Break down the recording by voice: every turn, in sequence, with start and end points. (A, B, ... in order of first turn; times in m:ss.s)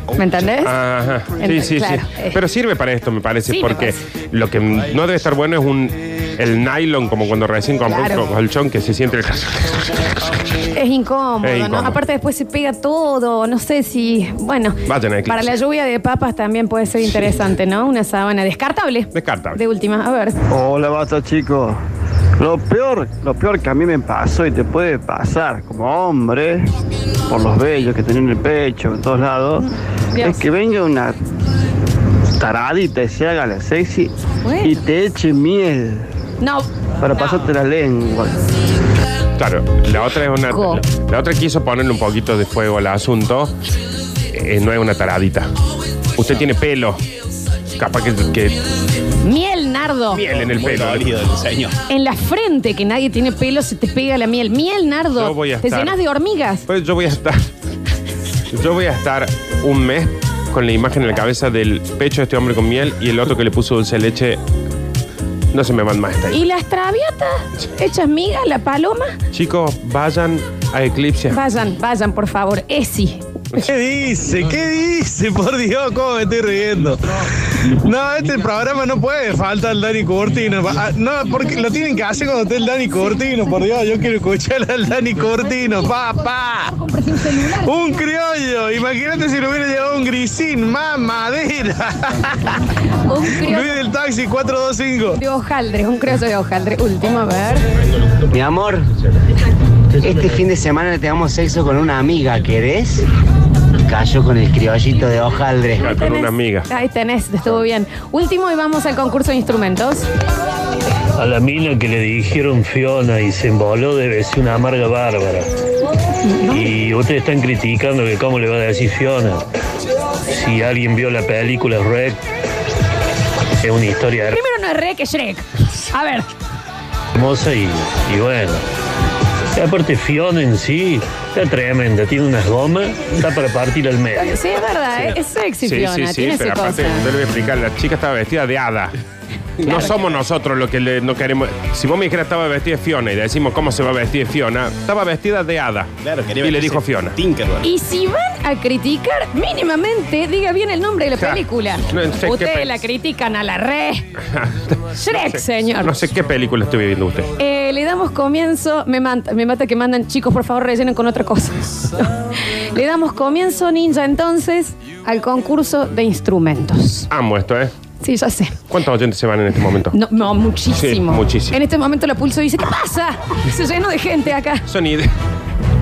0:00.2-0:00.7 A
0:00.6-0:10.6 B
0:01.4-0:02.4 A
0:03.5-0:03.9 A
0:07.9-0:08.3 A
0:10.7-0:20.4 A
0:11.4-0:12.0 B
0:14.8-0:15.5 B
0:19.1-0:19.6 B
0:20.5-0:21.8 C
0:22.4-0:26.7 C
0:27.3-0:31.2 C
0:30.1-0:30.4 A
0:32.4-0:36.1 C
0:34.4-0:34.8 A
0:36.4-0:37.4 A
0:37.0-0:38.5 C
0:39.4-0:43.5 B
0:40.5-0:40.8 A
0:44.3-0:45.5 B
0:46.2-0:47.0 B
0:47.8-0:48.7 B
0:49.2-0:50.2 A
0:50.1-0:51.3 B
0:51.9-0:56.6 A
0:55.2-0:56.0 B
0:56.7-0:57.4 B
0:58.5-1:04.4 B
1:05.5-1:06.4 B
1:06.3-1:09.2 A
1:09.3-1:11.4 B
1:11.3-1:13.2 A
1:13.6-1:17.0 D
1:17.6-1:26.7 D
1:26.7-1:27.7 A
1:27.6-1:32.6 D
1:33.0-1:33.8 A
1:33.2-1:35.2 D
1:35.2-1:37.6 A
1:38.3-1:38.8 E
1:40.0-1:43.0 E
1:43.8-1:45.8 E
1:45.8-1:50.0 A
1:45.8-1:46.7 B
1:51.2-1:55.5 F
1:56.2-1:56.7 A
1:56.5-1:59.4 F
2:00.3-2:02.2 F
2:03.6-2:04.4 F
2:04.3-2:06.3 A
2:07.1-2:08.6 F
2:09.5-2:14.4 F
2:14.2-2:17.0 A
2:15.0-2:18.9 B
2:19.6-2:27.2 B
2:19.6-2:20.0 A
2:27.6-2:34.1 A
2:31.2-2:32.8 B
2:34.3-2:37.3 B
2:34.9-2:35.9 A
2:37.4-2:47.1 A
2:47.1-2:47.7 B
2:48.0-2:48.6 A
2:48.7-2:49.9 B
2:49.9-2:54.6 A
2:50.8-2:51.6 B
2:54.7-2:55.1 B